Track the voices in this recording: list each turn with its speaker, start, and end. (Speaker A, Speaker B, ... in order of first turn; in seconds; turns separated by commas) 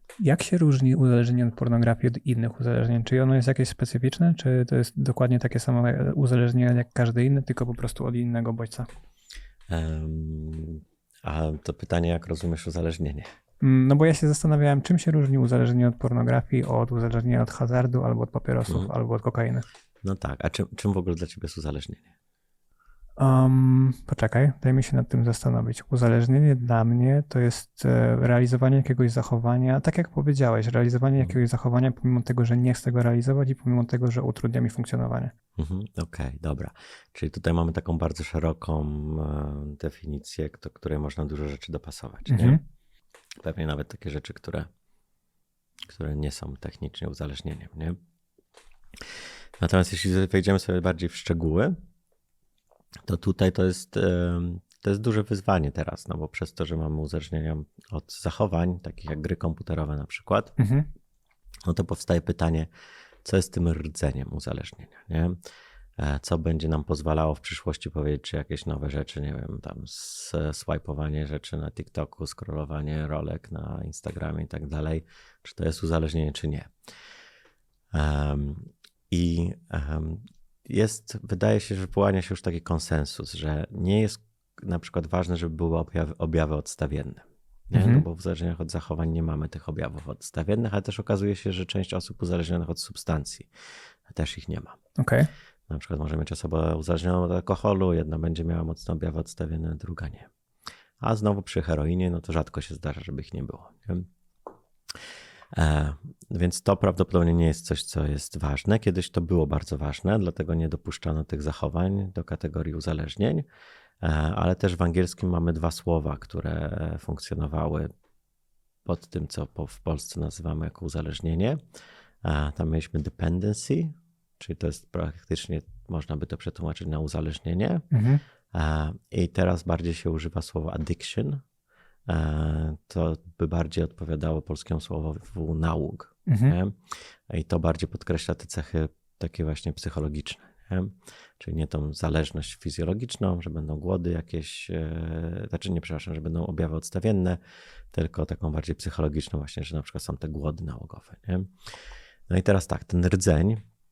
Speaker A: 0.2-8.9, Speaker B: 9.7-13.3, Speaker A: 13.6-19.6, Speaker B: 18.7-18.9, Speaker B: 20.0-22.1, Speaker A: 23.2-35.3, Speaker B: 35.6-42.6, Speaker A: 42.3-42.6, Speaker B: 43.4-44.7, Speaker B: 45.9-48.0, Speaker B: 49.0-51.7, Speaker B: 53.0-60.5, Speaker A: 60.6-60.9, Speaker B: 61.6-62.7, Speaker B: 63.2-65.3, Speaker B: 66.0-76.7, Speaker B: 77.9-93.5, Speaker A: 87.7-88.0, Speaker B: 94.1-94.8, Speaker A: 95.0-95.3, Speaker B: 95.7-100.3, Speaker B: 101.0-104.1, Speaker B: 105.5-113.5, Speaker B: 114.0-117.9, Speaker B: 118.8-121.6, Speaker B: 122.2-127.8, Speaker A: 127.9-128.2, Speaker B: 128.5-131.4, Speaker B: 132.1-147.4, Speaker A: 136.3-136.6, Speaker B: 147.9-151.5, Speaker B: 152.3-153.6